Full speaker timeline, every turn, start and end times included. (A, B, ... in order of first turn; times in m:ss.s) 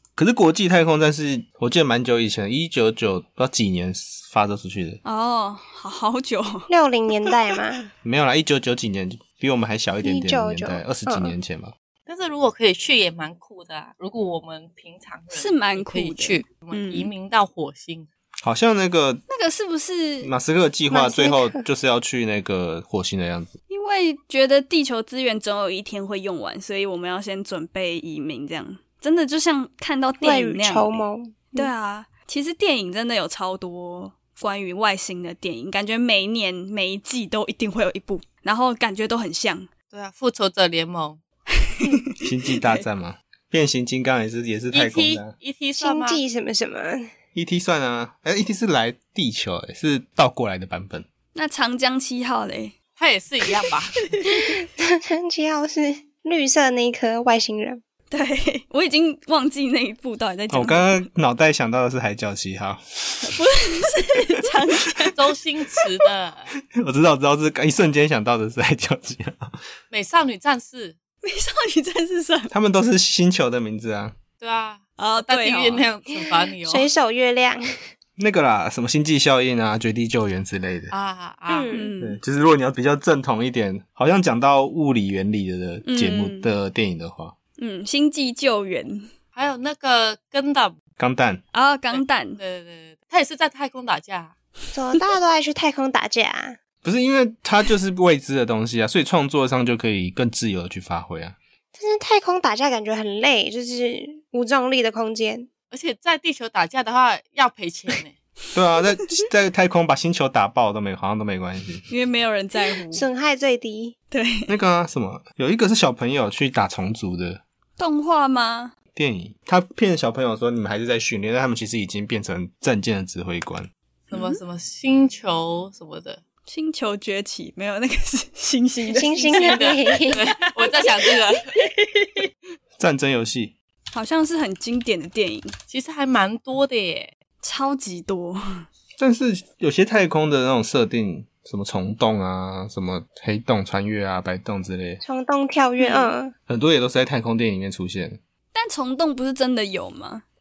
0:00.2-0:05.0 A
0:05.0-0:06.7 B
0:06.7-0:07.9 C
0:08.0-0:11.7 A
0:10.0-0:11.3 C
0:12.1-0:18.1 D
0:15.3-0:17.1 B
0:18.4-0:19.2 A
0:19.3-0:20.3 B
0:20.2-0:23.5 A
0:20.9-0:21.6 C
0:23.7-0:39.7 B
0:30.2-0:31.7 C
0:39.9-0:41.2 D
0:41.7-0:42.8 B
0:42.2-0:45.3 A
0:44.7-0:46.2 D
0:45.8-0:47.1 C
0:47.4-0:51.1 A
0:51.3-0:52.7 B
0:53.0-0:54.1 D
0:54.2-0:54.6 B
0:54.3-0:57.8 C
0:58.1-1:01.1 B
1:00.5-1:03.4 A
1:03.2-1:05.2 B
1:05.1-1:06.5 D
1:06.7-1:09.6 A
1:09.9-1:11.0 D
1:11.2-1:12.5 B
1:12.5-1:14.2 A
1:14.4-1:16.9 D
1:15.0-1:15.8 B
1:16.1-1:17.6 C
1:18.2-1:20.9 A
1:20.9-1:21.7 D
1:21.5-1:21.9 C
1:21.7-1:22.2 B
1:22.0-1:27.4 A
1:25.8-1:26.5 B
1:27.6-1:29.1 B
1:29.4-1:30.7 D
1:31.0-1:31.4 A
1:31.5-1:32.4 B
1:31.9-1:34.3 D
1:34.7-1:36.6 C
1:36.8-1:41.4 A
1:41.8-1:45.5 C
1:45.7-1:48.2 D
1:48.5-1:51.9 A
1:51.9-1:53.1 B
1:52.9-1:54.0 C
1:54.1-1:54.5 B
1:54.5-1:57.4 A
1:57.8-1:58.7 B
1:59.0-2:03.7 A
2:04.1-2:06.2 D
2:04.1-2:04.4 B
2:06.5-2:12.3 B
2:08.9-2:10.2 C
2:09.2-2:11.5 D
2:12.8-2:13.5 A
2:13.9-2:15.5 B
2:15.7-2:17.1 D
2:17.4-2:18.7 B
2:19.0-2:25.0 A
2:25.0-2:26.3 C
2:25.8-2:26.1 B
2:26.5-2:28.2 A
2:28.5-2:30.2 B